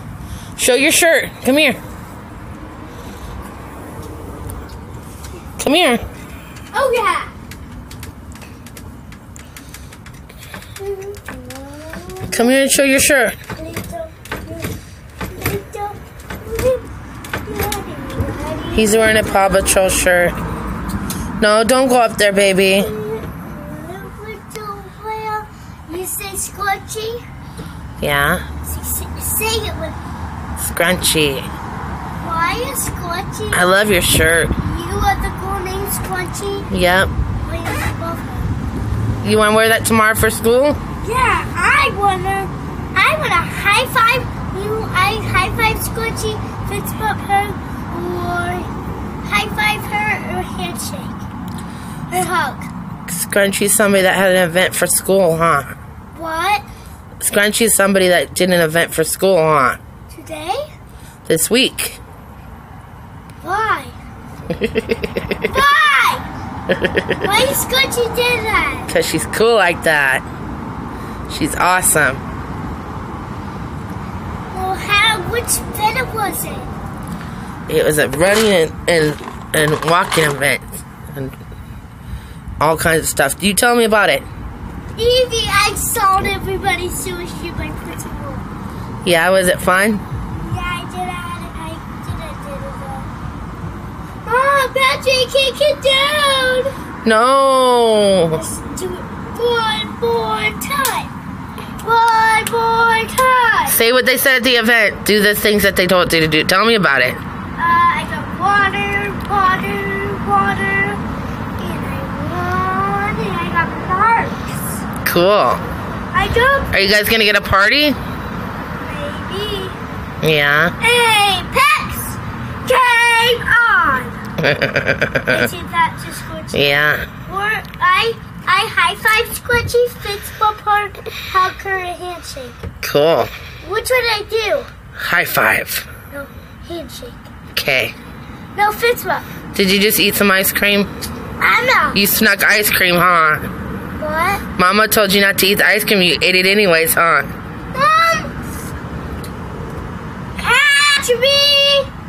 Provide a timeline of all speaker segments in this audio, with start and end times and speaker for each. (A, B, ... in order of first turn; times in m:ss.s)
0:00.6-0:01.8 A
0:05.6-0:06.0 A
0:06.7-0:07.3 B
0:10.8-0:12.7 B
0:12.3-0:13.4 A
0:13.6-0:14.7 B
0:15.3-0:16.8 B
0:17.4-0:19.9 B
0:18.7-0:20.4 A
0:21.4-0:22.9 A
0:22.6-0:27.2 B
0:28.0-0:28.4 A
0:28.6-0:30.0 B
0:30.6-0:31.5 A
0:32.2-0:33.7 B
0:33.5-0:34.5 A
0:34.6-0:36.7 B
0:36.7-0:37.1 A
0:37.4-0:38.5 B
0:39.2-0:40.8 A
0:41.0-0:48.7 B
0:49.2-0:51.2 B
0:52.1-0:52.7 B
0:53.1-0:55.7 A
0:56.1-0:56.6 B
0:57.2-0:59.8 A
1:00.1-1:00.6 B
1:01.2-1:02.0 A
1:03.4-1:04.0 B
1:04.6-1:05.3 A
1:05.4-1:06.3 B
1:06.8-1:07.1 A
1:07.2-1:08.9 B
1:08.9-1:10.2 A
1:11.3-1:12.2 A
1:14.5-1:16.7 B
1:17.7-1:21.4 A
1:22.6-1:24.3 A
1:25.0-1:28.5 B
1:29.0-1:30.0 A
1:30.3-1:33.1 B
1:34.2-1:36.7 B
1:37.0-1:38.4 A
1:38.3-1:41.1 B
1:41.8-1:43.8 B
1:43.7-1:47.2 A
1:47.6-1:51.0 B
1:51.6-1:54.8 B
1:55.0-1:55.6 A
1:56.1-1:56.7 B
1:56.7-1:58.0 A
1:58.8-1:59.8 B
2:00.2-2:00.7 A
2:00.8-2:04.2 B
2:04.4-2:05.4 A
2:05.3-2:12.6 B
2:06.5-2:07.1 A
2:12.8-2:13.3 A
2:13.6-2:14.7 B
2:15.0-2:15.9 A
2:16.1-2:17.3 B
2:17.5-2:17.9 A
2:18.6-2:19.3 B
2:19.5-2:20.9 A
2:21.4-2:22.0 B
2:21.9-2:23.5 A
2:24.0-2:24.4 B
2:24.6-2:27.3 A
2:27.7-2:28.3 B
2:30.4-2:31.9 B